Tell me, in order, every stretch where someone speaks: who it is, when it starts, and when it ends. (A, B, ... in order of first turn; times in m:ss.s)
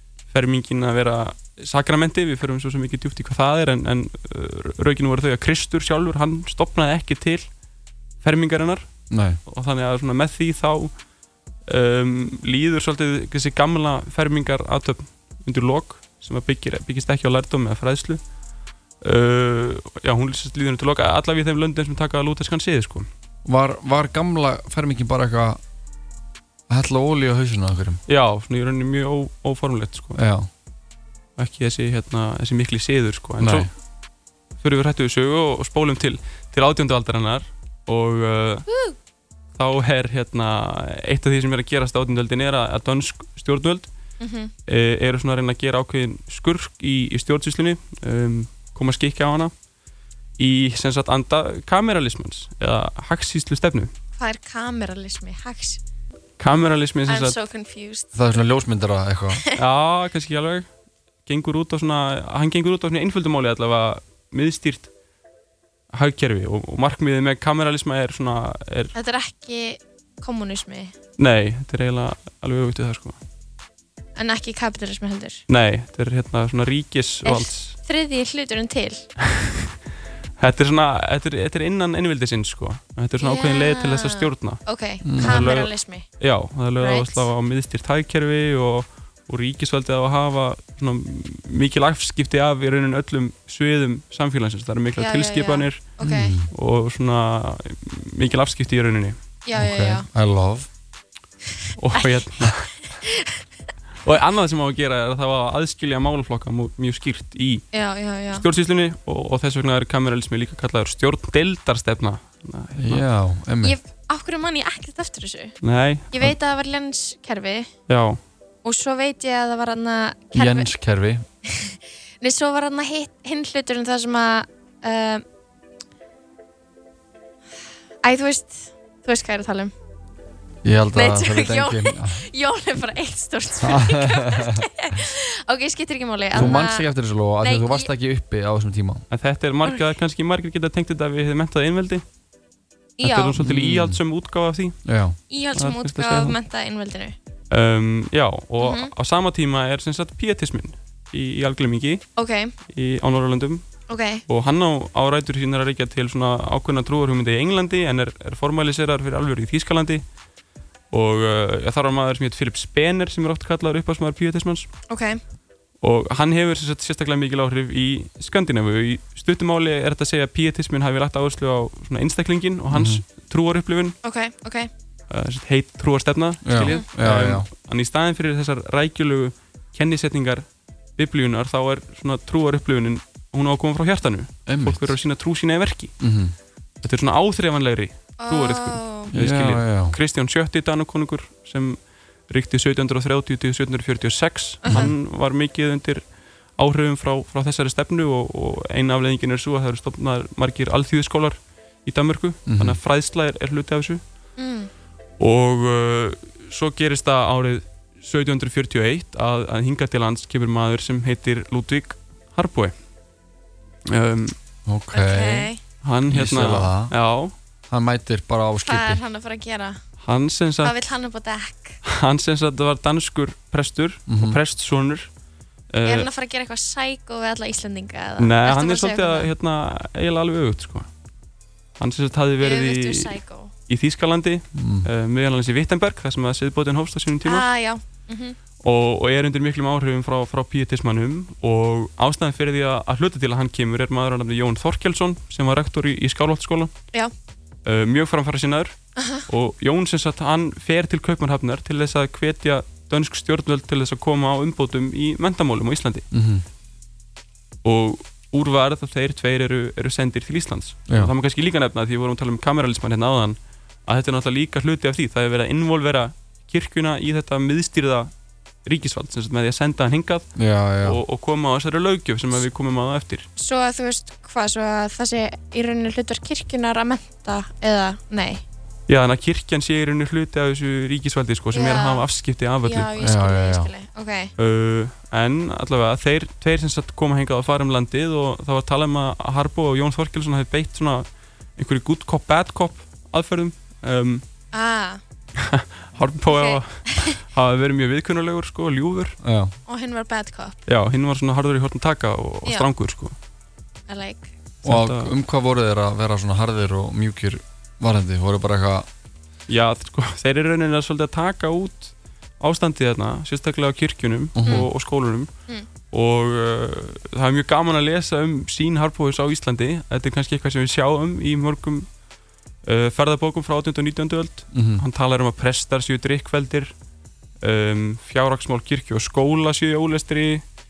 0:00.3-0:07.5 A
0:08.2-0:08.9 A
0:09.1-0:09.4 B
0:09.4-0:10.9 A
0:11.7-0:18.2 A
0:19.0-0:23.1 A
0:23.4-0:25.6 B
0:26.7-0:28.0 B
0:28.1-0:30.2 A
0:30.2-0:30.5 B
0:31.4-0:33.7 A
0:33.4-0:33.7 B
0:34.6-0:38.7 A
0:38.7-0:39.0 C
0:39.6-0:43.9 A
0:44.2-0:44.5 C
0:44.7-0:49.5 A
0:50.4-0:53.9 A
0:54.2-0:55.8 C
0:56.4-0:57.4 A
0:57.1-0:58.1 C
0:58.1-0:59.4 B
0:59.6-1:00.7 A
1:01.3-1:04.9 A
1:05.9-1:08.9 A
1:09.0-1:10.9 C
1:11.2-1:13.2 A
1:14.2-1:15.4 C
1:15.5-1:17.8 A
1:17.2-1:19.1 C
1:19.2-1:19.7 A
1:20.4-1:24.6 A
1:23.2-1:26.0 C
1:25.0-1:25.5 B
1:25.2-1:36.0 A
1:26.8-1:27.3 C
1:35.0-1:36.4 C
1:36.0-1:36.5 B
1:36.5-1:39.2 A
1:39.4-1:40.1 C
1:39.5-1:40.7 B
1:41.8-1:42.7 A
1:42.9-1:43.4 C
1:44.0-1:47.6 A
1:47.7-1:48.4 C
1:48.3-1:53.0 A
1:52.8-1:53.8 B
1:53.6-1:55.6 C
1:55.6-1:56.1 A
1:56.1-1:57.7 C
1:57.9-1:58.2 A
1:58.6-2:00.7 C
2:00.3-2:01.2 B
2:01.5-2:05.2 C
2:08.0-2:09.7 C
2:10.6-2:12.3 B
2:11.0-2:16.9 C
2:13.6-2:14.7 B
2:16.3-2:19.1 B
2:17.4-2:17.9 C
2:19.1-2:22.0 A
2:23.0-2:23.4 C
2:23.0-2:24.8 A
2:23.4-2:24.0 B
2:24.8-2:25.2 B
2:25.3-2:27.2 C
2:25.6-2:26.4 A
2:27.5-2:32.1 A
2:28.6-2:28.9 C
2:32.2-2:32.5 C
2:32.7-2:33.7 A
2:33.9-2:34.2 C
2:34.3-2:40.0 A
2:40.9-2:44.7 A
2:44.9-2:45.2 C
2:45.8-2:54.0 A
2:52.7-2:53.0 B
2:54.0-2:54.7 C
2:55.1-3:00.4 A
2:56.4-2:57.5 B
3:01.0-3:05.9 A
3:04.5-3:05.0 B
3:06.0-3:06.4 B
3:06.8-3:16.0 A
3:08.2-3:09.1 C
3:09.1-3:10.0 B
3:14.6-3:14.9 C
3:16.6-3:24.0 A
3:22.5-3:22.8 B
3:24.4-3:24.7 C
3:25.2-3:32.7 A
3:33.9-3:34.4 A
3:34.7-3:35.5 B
3:34.9-3:35.6 C
3:35.8-3:37.3 A
3:36.1-3:36.9 B
3:37.7-3:39.0 B
3:38.6-3:39.8 C
3:40.0-3:40.8 A
3:40.6-3:41.8 C
3:41.8-3:45.1 A
3:44.1-3:44.4 B
3:45.7-3:46.1 A
3:45.8-3:49.3 C
3:48.2-3:50.9 A
3:51.8-3:53.2 A
3:52.4-3:53.5 C
3:53.7-3:57.5 A
3:54.6-3:54.9 B
3:57.3-3:58.4 C
3:58.6-4:06.7 A
4:07.6-4:08.8 A
4:09.0-4:09.2 C
4:09.3-4:16.0 A
4:16.1-4:16.4 B
4:17.6-4:28.1 A
4:28.6-4:30.3 A
4:30.4-4:31.0 B
4:30.8-4:33.3 A
4:33.4-4:38.4 C
4:38.9-4:42.9 A
4:41.5-4:42.1 C
4:42.6-4:44.3 C
4:43.0-4:43.7 B
4:44.4-4:51.1 A
4:51.6-4:54.2 A
4:54.5-4:55.0 C
4:55.4-4:59.2 A
4:56.3-4:57.2 C
4:59.2-4:59.5 B
4:59.7-5:00.6 C
5:00.7-5:03.2 A
5:03.9-5:04.3 C
5:04.6-5:05.1 A
5:04.6-5:08.9 B
5:09.5-5:15.3 A
5:14.4-5:14.7 B
5:15.9-5:21.9 A
5:22.6-5:26.7 A
5:24.5-5:24.8 B
5:27.4-5:30.4 A